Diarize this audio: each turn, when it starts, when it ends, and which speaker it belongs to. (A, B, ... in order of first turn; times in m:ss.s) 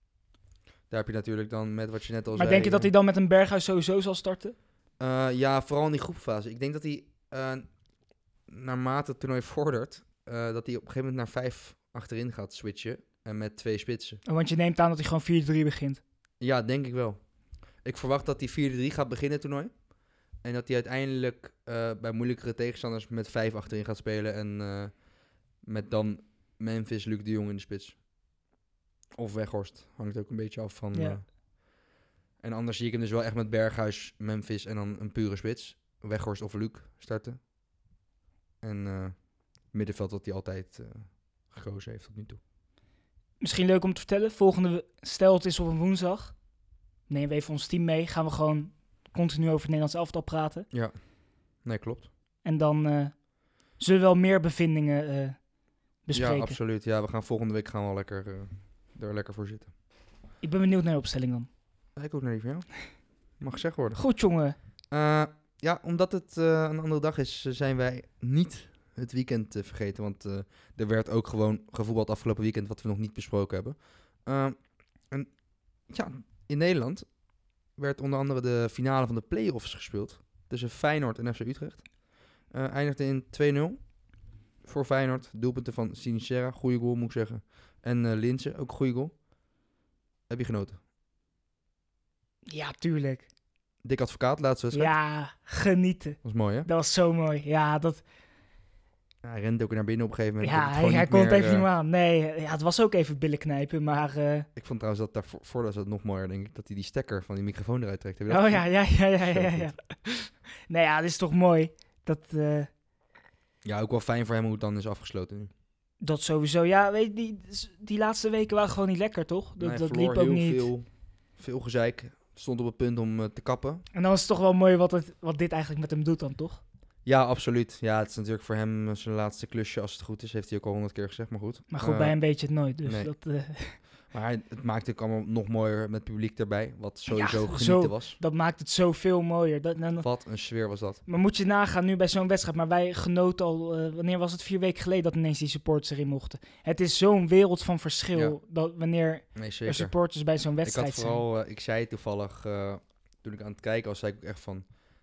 0:00.9-0:02.9 A
0:02.3-0:04.6 B
0:05.0-0:07.6 A
0:08.5-0:14.2 A
0:14.2-0:16.0 B
0:16.4-0:17.2 A
0:17.8-0:19.7 A
0:20.4-0:25.0 A
0:25.6-0:28.0 A
0:29.2-0:31.3 A
0:30.9-0:31.2 B
0:32.4-0:37.4 A
0:38.6-0:42.4 A
0:43.4-0:46.4 B
0:47.1-0:50.7 B
0:51.6-0:52.1 A
0:52.4-0:55.4 B
0:56.0-0:56.6 B
0:56.1-0:59.7 A
1:00.4-1:01.5 B
1:01.9-1:04.0 A
1:04.0-1:04.6 B
1:04.9-1:15.3 A
1:15.9-1:17.1 A
1:17.8-1:21.9 A
1:22.5-1:23.8 A
1:24.6-1:29.1 A
1:30.3-1:30.8 A
1:32.5-1:33.3 B
1:33.8-1:34.9 A
1:34.7-1:38.0 B
1:36.2-1:36.7 A
1:39.2-1:41.7 A
1:40.4-1:44.5 B
1:44.6-1:49.7 A
1:48.3-1:52.7 B
1:53.6-1:55.5 A
1:56.0-2:00.7 B
1:59.6-2:03.8 A
2:03.9-2:06.6 B
2:07.0-2:12.2 A
2:11.7-2:13.8 B
2:12.8-2:13.1 A
2:14.1-2:18.2 A
2:17.1-2:20.1 B
2:20.0-2:21.0 A
2:21.0-2:31.2 B
2:29.3-2:29.9 A
2:30.6-2:34.7 A